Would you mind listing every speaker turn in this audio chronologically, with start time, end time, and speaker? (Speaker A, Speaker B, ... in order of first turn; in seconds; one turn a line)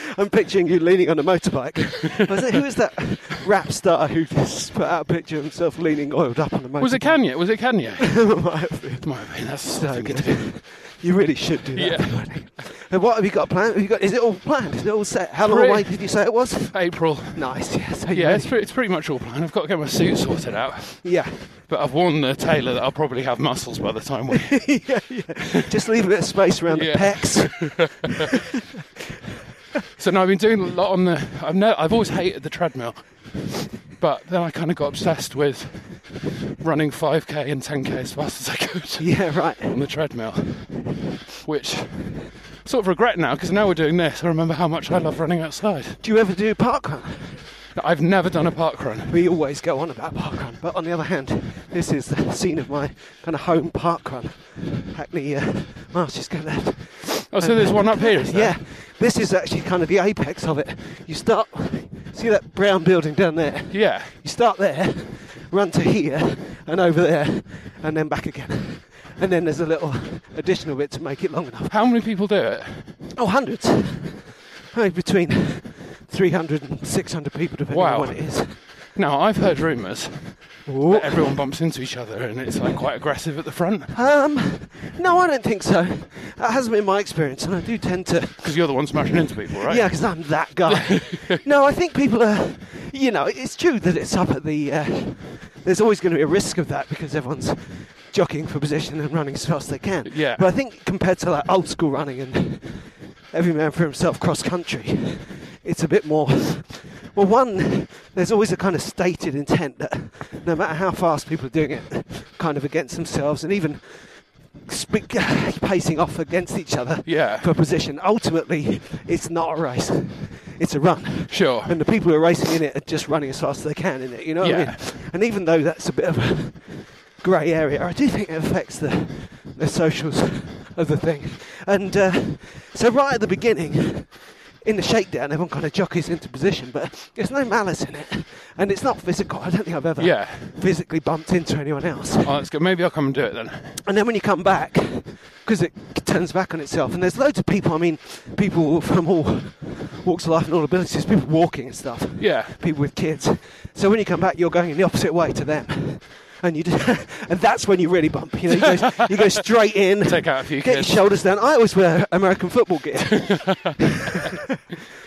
Speaker A: 0.1-18.5
Speaker B: 6.8-10.6
Speaker B: 11.8-12.7
Speaker B: 15.4-25.1
Speaker A: 21.0-21.5
Speaker A: 24.5-28.1
Speaker B: 26.7-28.2
Speaker B: 30.0-46.0
Speaker A: 39.0-39.8
Speaker A: 46.0-47.5
Speaker B: 47.8-49.2
Speaker A: 49.1-71.8
Speaker B: 57.3-58.6
Speaker B: 63.7-64.2
Speaker B: 71.7-73.0
Speaker A: 73.2-78.6
Speaker B: 77.7-83.9
Speaker A: 80.7-81.4
Speaker A: 83.9-88.8
Speaker B: 88.4-91.4
Speaker A: 89.6-142.3
Speaker B: 100.0-100.5
Speaker B: 117.0-117.5
Speaker B: 121.3-121.8
Speaker B: 124.4-124.8
Speaker B: 140.0-140.6
Speaker B: 142.2-143.8
Speaker A: 143.8-164.2
Speaker B: 152.2-152.6
Speaker B: 158.5-159.1
Speaker B: 160.0-161.1
Speaker B: 163.1-163.7